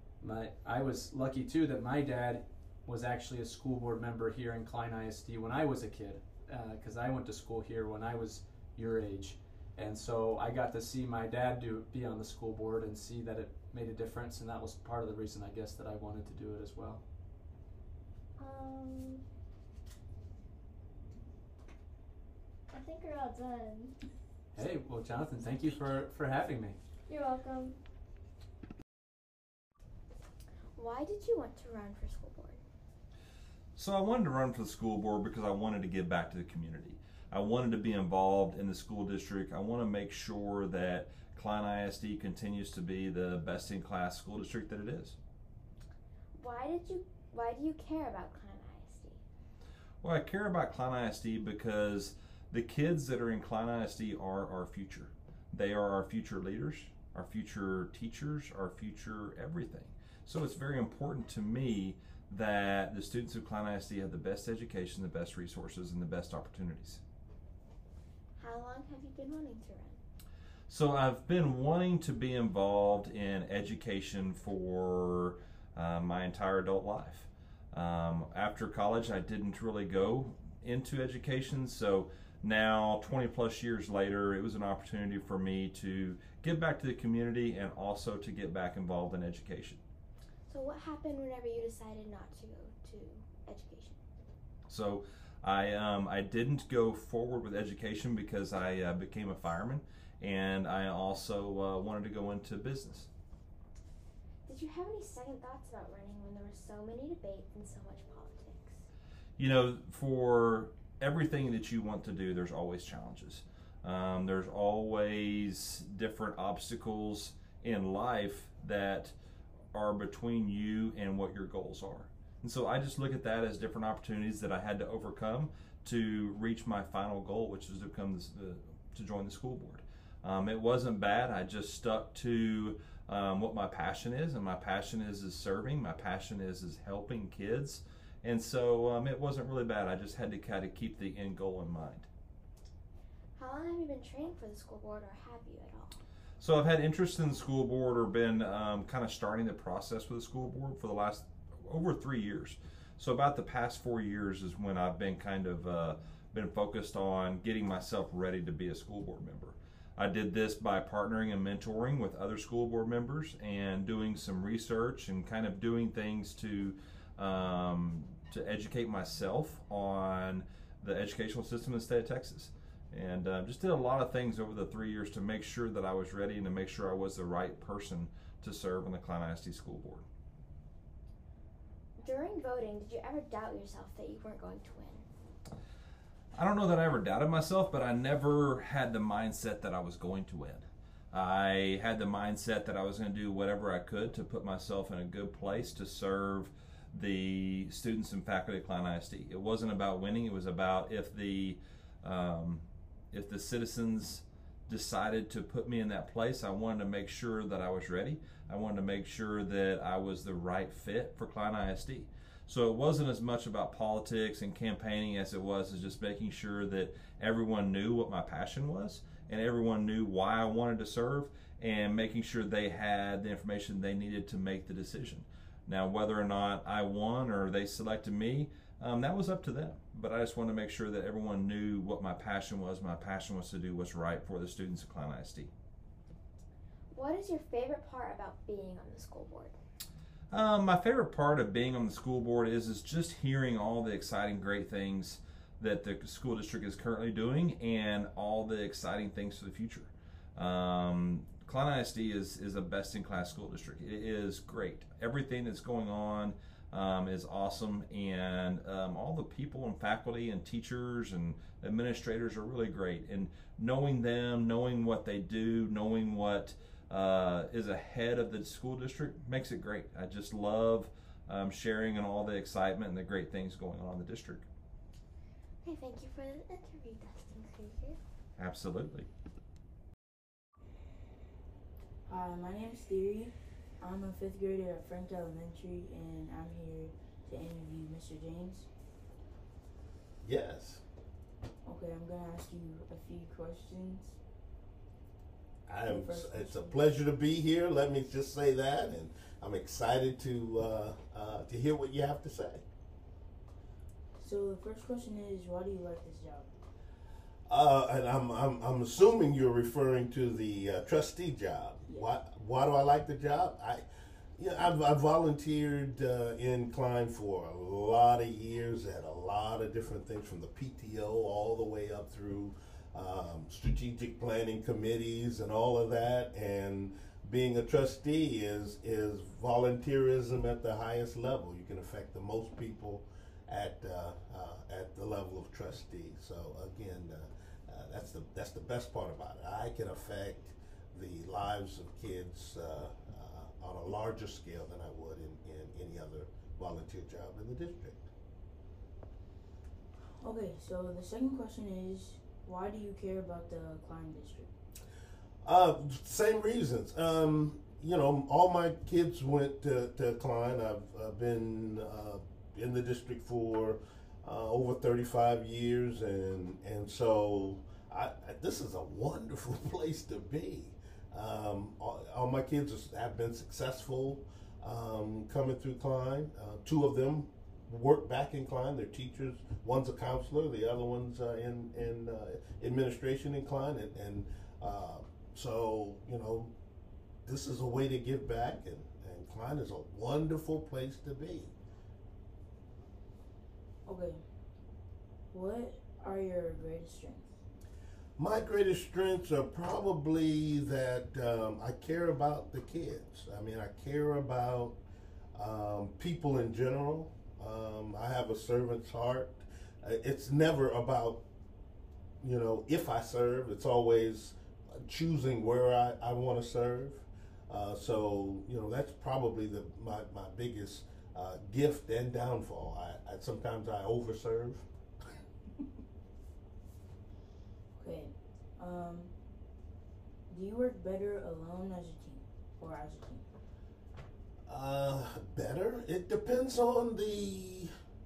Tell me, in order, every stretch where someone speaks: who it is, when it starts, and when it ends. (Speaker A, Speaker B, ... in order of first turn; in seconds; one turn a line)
Speaker A: 0.2-17.0
Speaker B: 18.4-19.2
Speaker B: 22.7-23.9
Speaker A: 24.5-26.8
Speaker B: 27.1-27.8
Speaker C: 30.7-32.6
Speaker D: 33.8-45.1
Speaker C: 46.3-49.2
Speaker D: 50.0-67.0
Speaker C: 68.3-70.0
Speaker D: 70.7-89.8
Speaker C: 90.5-94.0
Speaker D: 94.7-103.1
Speaker C: 104.4-108.9
Speaker D: 109.4-119.1
Speaker D: 119.7-142.1
Speaker C: 143.3-146.0
Speaker D: 146.4-180.0
Speaker C: 182.0-185.1
Speaker D: 186.3-235.5
Speaker C: 236.9-239.6
Speaker D: 240.3-274.4
Speaker C: 275.6-278.0
Speaker D: 278.4-279.1
Speaker E: 282.1-288.7
Speaker F: 290.2-290.8
Speaker E: 291.6-294.2
Speaker F: 295.6-302.6
Speaker E: 295.8-296.8
Speaker E: 304.1-306.5
Speaker F: 307.5-313.8
Speaker F: 314.4-348.0
Speaker E: 350.2-354.5
Speaker F: 355.4-386.5
Speaker F: 387.2-391.5
Speaker E: 393.8-394.4
Speaker E: 395.3-397.4
Speaker F: 398.2-404.8
Speaker F: 405.3-411.2
Speaker F: 412.2-424.6
Speaker E: 427.7-429.1
Speaker E: 430.3-433.3
Speaker F: 434.5-437.7